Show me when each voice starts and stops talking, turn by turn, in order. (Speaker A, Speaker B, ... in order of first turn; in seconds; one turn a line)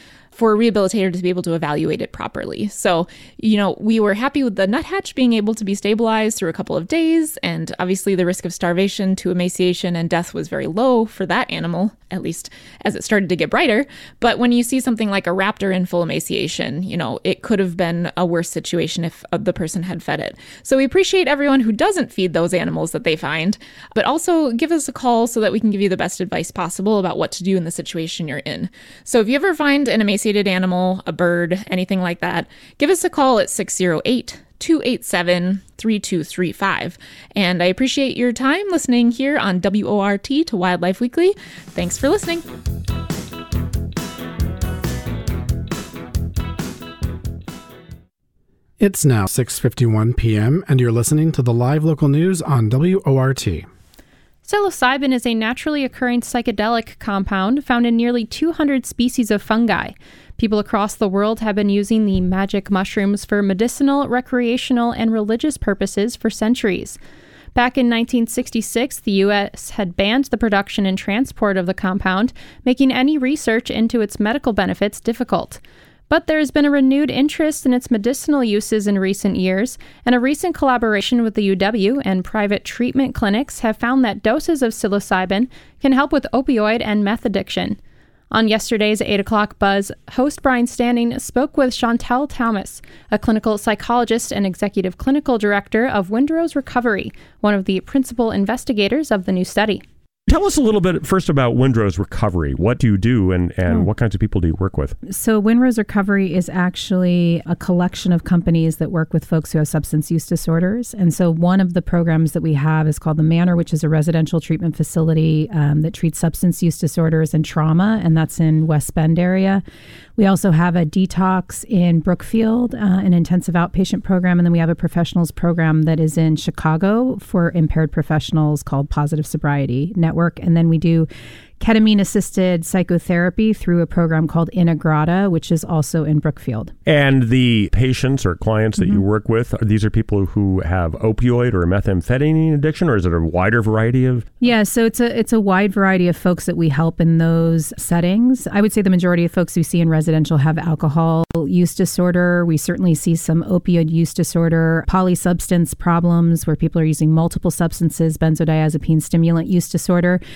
Speaker A: 0.3-42.5
Speaker B: 48.8-53.7
Speaker C: 54.5-67.0
Speaker C: 67.5-87.8
Speaker C: 88.3-99.8
Speaker D: 100.3-105.0
Speaker E: 105.1-119.6
Speaker E: 120.2-131.1
Speaker E: 131.6-136.7
Speaker D: 136.9-144.3
Speaker E: 144.4-160.2